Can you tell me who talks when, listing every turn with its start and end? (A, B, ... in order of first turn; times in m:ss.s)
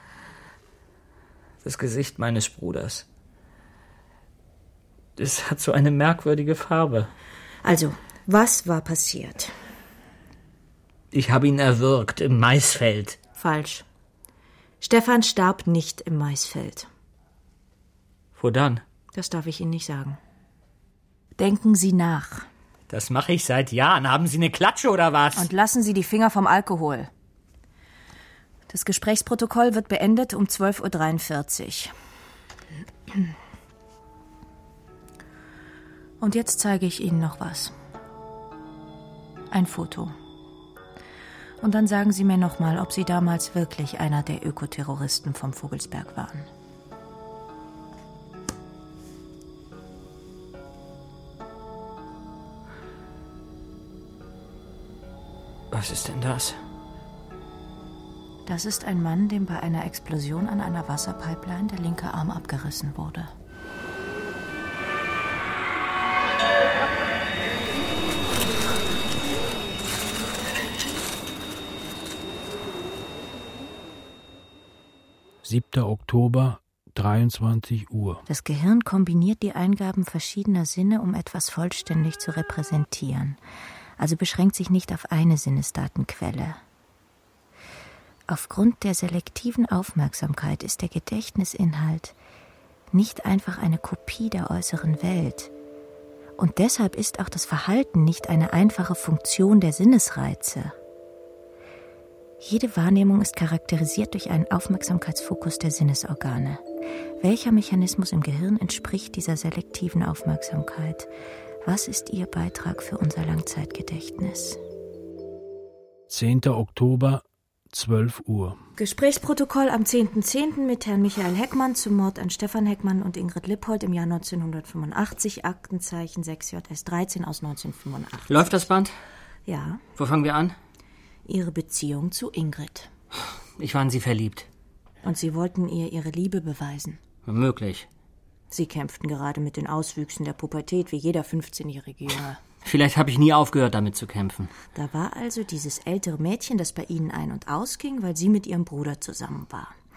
0:01.6-0:03.0 A
0:05.2-0:07.1 A
0:07.6-0:09.5 B
0:11.1-0:13.2 A
0:13.4-0:13.8 B
0:14.8-0:16.9 B
0:18.4-0:18.8 A
0:19.1-0:20.2 B
0:21.4-0:22.5 B
0:22.9-0:25.5 A
0:25.4-0:27.1 B
0:28.7-0:31.9 B
0:36.2-0:37.7 B
0:39.5-0:40.1 B
0:41.6-0:46.5 B
0:55.7-0:56.6 A
0:58.4-1:03.3 B
1:15.4-1:18.2 C
1:18.3-1:23.4 B
1:24.0-1:26.6 B
1:28.3-1:32.1 B
1:32.9-1:35.5 B
1:36.4-1:40.7 B
1:42.4-1:46.6 B
1:47.2-1:51.1 B
1:51.6-1:54.6 B
1:56.1-1:58.6 C
1:58.8-2:08.6 B
2:08.3-2:08.9 A
2:09.5-2:09.8 B
2:10.0-2:10.5 A
2:11.2-2:12.9 B
2:13.6-2:14.5 A
2:15.0-2:17.0 B
2:17.2-2:17.9 A
2:18.5-2:22.4 B
2:22.6-2:24.5 A
2:24.7-2:29.8 B